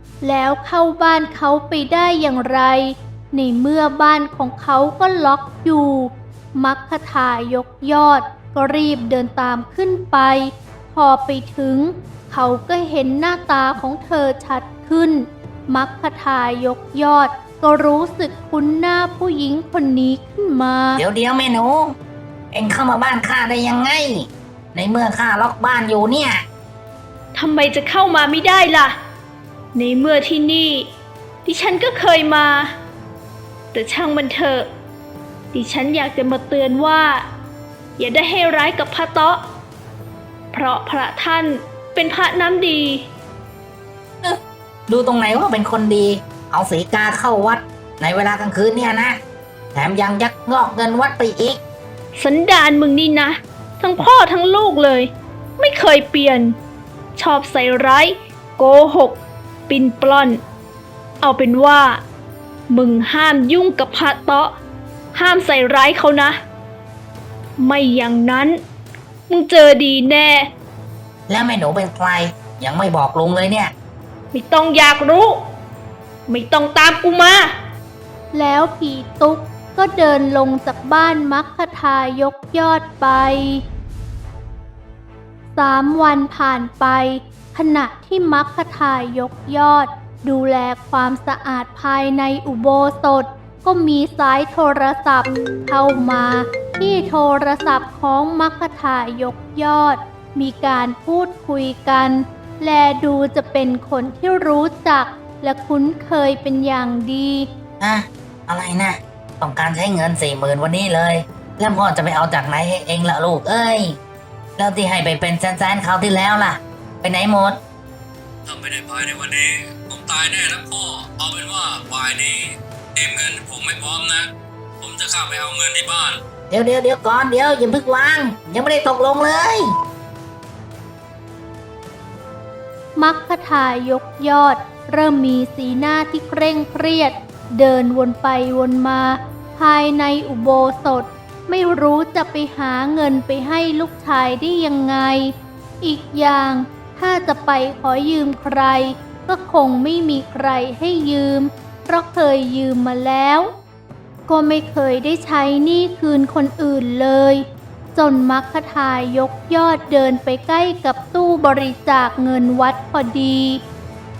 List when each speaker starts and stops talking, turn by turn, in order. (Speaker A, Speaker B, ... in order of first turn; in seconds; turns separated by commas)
Speaker A: 0.2-21.0, Speaker B: 21.0-22.0, Speaker B: 22.5-26.4, Speaker C: 27.4-29.0, Speaker C: 29.8-30.9, Speaker C: 31.4-32.7, Speaker C: 33.7-34.7, Speaker C: 35.5-37.2, Speaker C: 38.0-39.4, Speaker C: 40.5-43.0, Speaker B: 44.2-49.2, Speaker B: 49.8-51.6, Speaker C: 52.2-56.6, Speaker C: 57.2-60.4, Speaker C: 61.2-62.0, Speaker C: 62.7-64.5, Speaker C: 65.1-66.4, Speaker C: 67.6-68.6, Speaker C: 69.3-70.5, Speaker B: 71.3-73.7, Speaker C: 74.3-75.4, Speaker C: 76.3-77.5, Speaker A: 78.3-83.6, Speaker A: 85.5-107.5, Speaker B: 107.8-114.0, Speaker B: 114.6-117.6, Speaker D: 118.4-126.2, Speaker B: 126.5-129.7, Speaker A: 133.0-153.5, Speaker A: 154.3-163.6